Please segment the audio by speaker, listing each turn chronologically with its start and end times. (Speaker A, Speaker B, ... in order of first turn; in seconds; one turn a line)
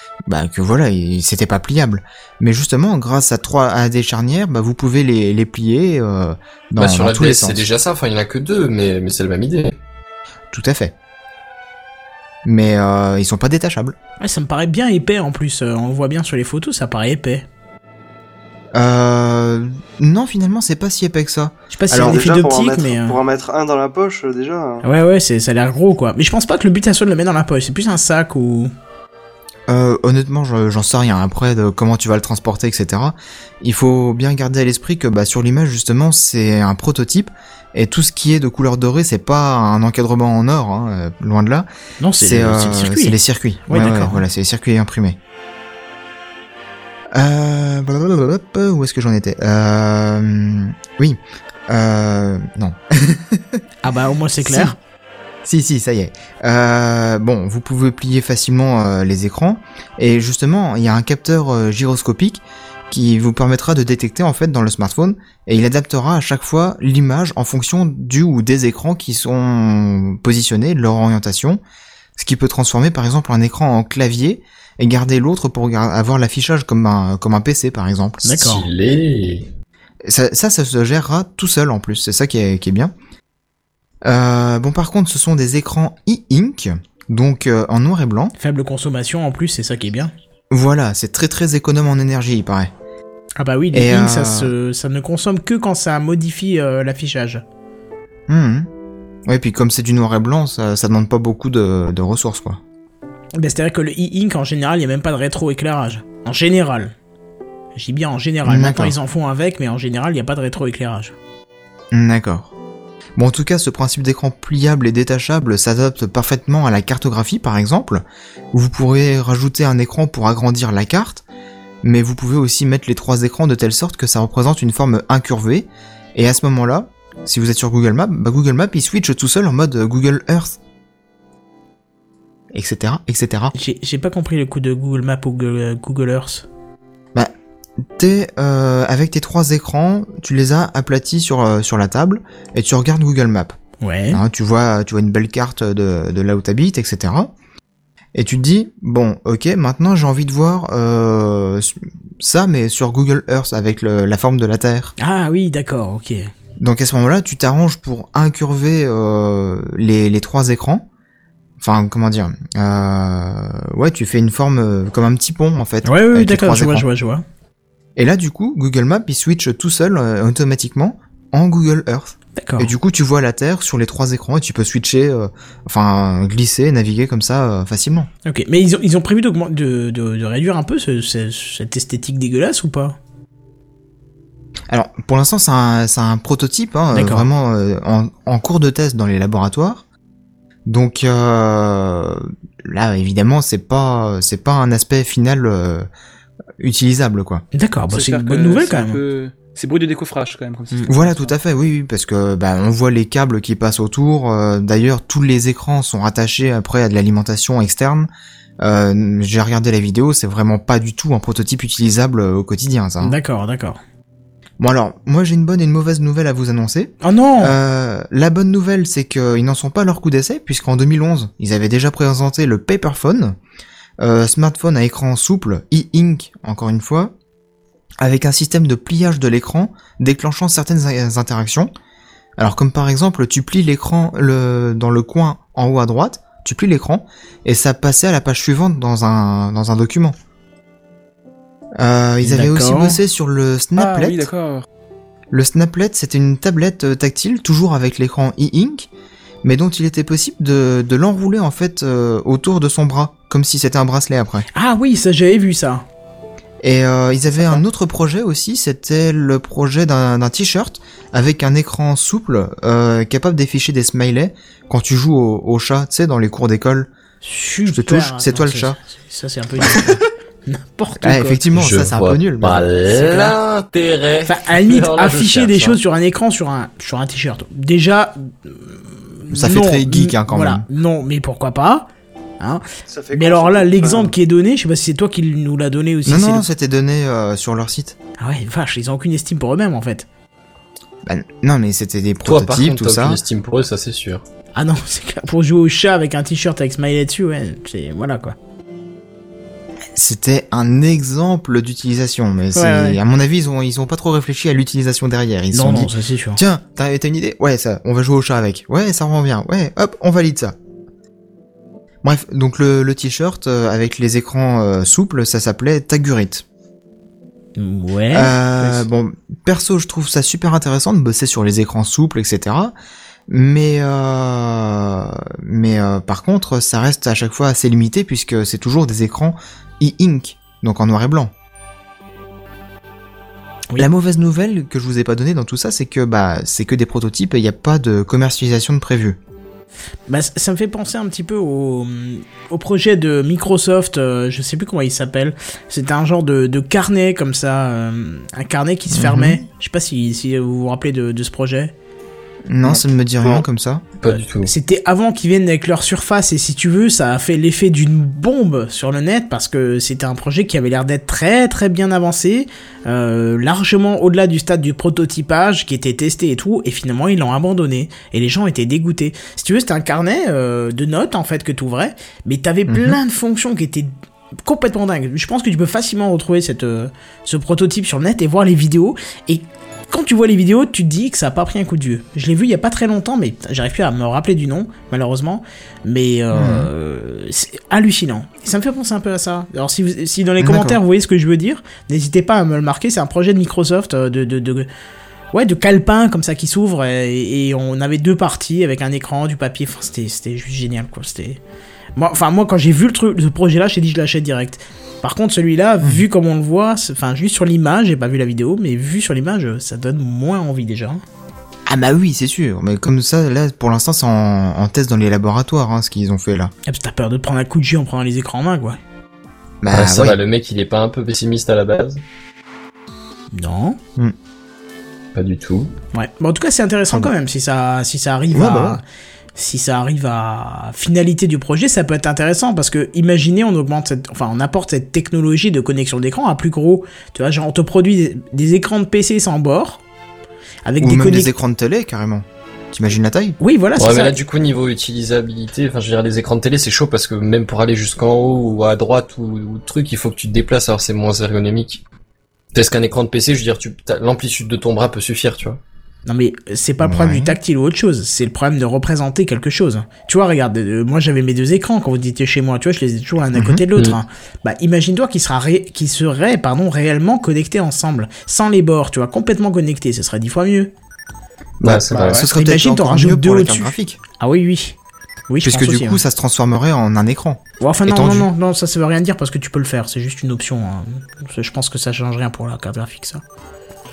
Speaker A: 0.3-7.7
Speaker B: 6.8-9.8
Speaker A: 10.5-10.9
Speaker A: 12.4-14.0
Speaker C: 14.2-17.4
Speaker A: 18.7-22.2
Speaker C: 21.7-23.2
Speaker D: 21.9-24.8
Speaker C: 24.8-28.7
Speaker A: 29.7-41.7
Speaker C: 42.0-44.2
Speaker A: 42.2-45.2
Speaker A: 47.1-53.6
Speaker C: 53.8-54.8
Speaker A: 54.4-54.8
Speaker A: 55.4-71.6
Speaker A: 72.2-78.2
Speaker C: 78.2-78.7
Speaker B: 78.3-79.5
Speaker A: 80.0-82.9
Speaker A: 84.0-88.3
Speaker C: 88.4-90.1
Speaker A: 90.5-92.7
Speaker C: 93.4-97.4
Speaker A: 93.7-94.5
Speaker A: 98.3-98.7
Speaker A: 99.3-102.6
Speaker C: 103.4-106.9
Speaker C: 107.8-111.1
Speaker A: 108.5-109.0
Speaker A: 111.9-112.5
Speaker A: 113.2-121.2
Speaker A: 121.8-130.6
Speaker A: 132.5-133.5
Speaker C: 133.6-136.4
Speaker A: 137.9-143.6
Speaker C: 143.8-144.2
Speaker A: 144.1-147.3
Speaker A: 148.1-154.9
Speaker C: 155.0-156.3
Speaker A: 156.6-160.8
Speaker A: 161.6-166.9
Speaker C: 165.8-167.2
Speaker A: 168.0-178.1
Speaker C: 172.4-172.7
Speaker C: 178.2-183.0
Speaker A: 184.7-189.8
Speaker C: 186.9-187.3
Speaker A: 190.7-195.9
Speaker A: 196.6-197.4
Speaker C: 197.5-199.0
Speaker E: 197.9-201.3
Speaker A: 200.9-208.1
Speaker A: 208.6-213.2
Speaker C: 213.0-213.8
Speaker A: 214.6-223.4
Speaker C: 217.0-217.6
Speaker A: 224.0-227.1
Speaker A: 228.0-231.7
Speaker A: 232.4-240.2
Speaker A: 241.8-244.3
Speaker C: 242.2-243.0
Speaker E: 243.8-244.7
Speaker A: 245.3-248.9
Speaker A: 249.4-254.5
Speaker C: 254.5-255.8
Speaker A: 256.6-266.9
Speaker C: 257.4-257.6
Speaker C: 267.2-271.4
Speaker A: 267.7-268.8
Speaker A: 271.0-273.3
Speaker B: 271.6-275.8
Speaker C: 274.2-281.9
Speaker A: 279.3-280.7
Speaker D: 282.9-284.1
Speaker C: 283.1-286.4
Speaker A: 286.1-288.0
Speaker C: 288.2-290.1
Speaker A: 291.1-293.2
Speaker B: 292.2-294.2
Speaker C: 294.6-298.4
Speaker A: 299.9-310.6
Speaker C: 302.6-303.0
Speaker C: 305.5-306.4
Speaker A: 312.0-316.4
Speaker C: 317.6-318.9
Speaker A: 318.1-322.7
Speaker A: 323.3-331.3
Speaker A: 333.8-339.2
Speaker C: 340.1-351.7
Speaker A: 348.9-349.4
Speaker A: 352.5-353.8
Speaker B: 354.0-354.5
Speaker C: 354.1-373.9
Speaker A: 372.7-373.0
Speaker C: 374.4-394.7
Speaker A: 386.3-386.7
Speaker A: 390.4-390.8
Speaker C: 395.3-401.4
Speaker C: 402.0-411.0
Speaker A: 411.7-416.5
Speaker C: 416.7-418.8
Speaker A: 419.6-420.2
Speaker B: 419.7-422.0
Speaker C: 423.3-423.8
Speaker B: 425.1-425.7
Speaker C: 425.9-428.8
Speaker A: 428.3-428.8
Speaker C: 429.4-439.8
Speaker C: 440.6-441.3
Speaker A: 440.8-443.4
Speaker C: 443.4-444.2
Speaker B: 443.8-451.8
Speaker B: 452.5-455.6
Speaker C: 456.1-470.7
Speaker A: 456.8-457.4
Speaker A: 463.4-463.6
Speaker A: 471.6-474.0
Speaker B: 471.6-472.2
Speaker C: 471.9-474.8
Speaker C: 475.3-476.0
Speaker A: 475.4-478.3
Speaker C: 477.6-483.2